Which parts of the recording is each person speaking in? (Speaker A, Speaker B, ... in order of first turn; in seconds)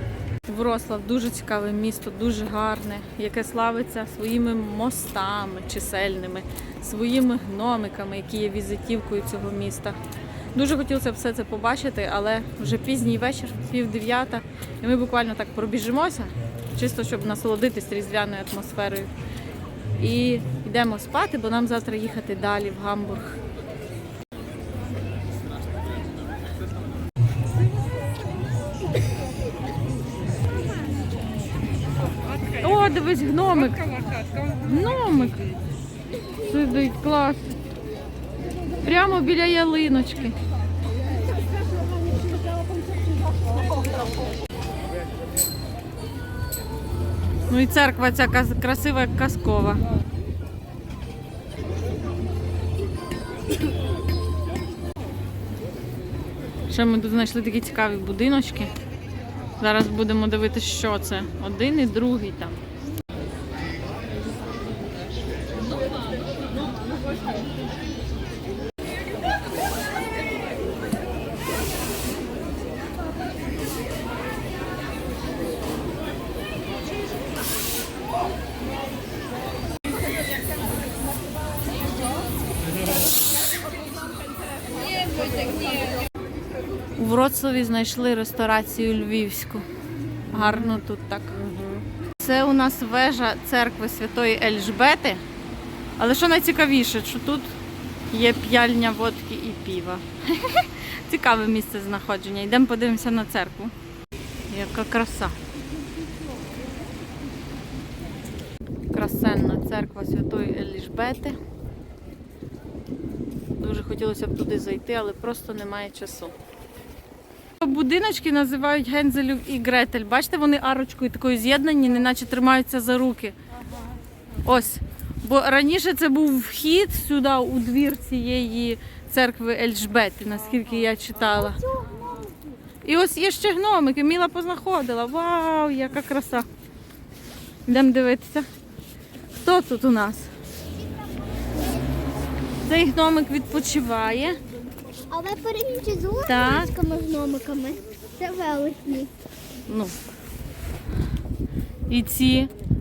Speaker A: 0.5-10.0, 10.5-19.1, 20.0-23.4, 32.6-33.9, 34.5-35.6, 36.4-37.5, 38.8-40.4, 47.5-49.8, 56.7-58.7, 59.6-62.6, 87.0-89.6, 90.3-91.4, 92.2-95.2, 96.0-97.5, 98.1-103.7, 104.5-105.4, 108.9-111.4, 113.6-116.3, 117.6-123.3, 124.4-131.6, 132.8-136.5, 137.7-138.5, 139.4-140.3, 142.7-144.4, 146.2-146.7, 149.7-149.9, 151.9-152.5
Speaker B: 84.8-86.0, 131.4-132.3, 145.1-149.1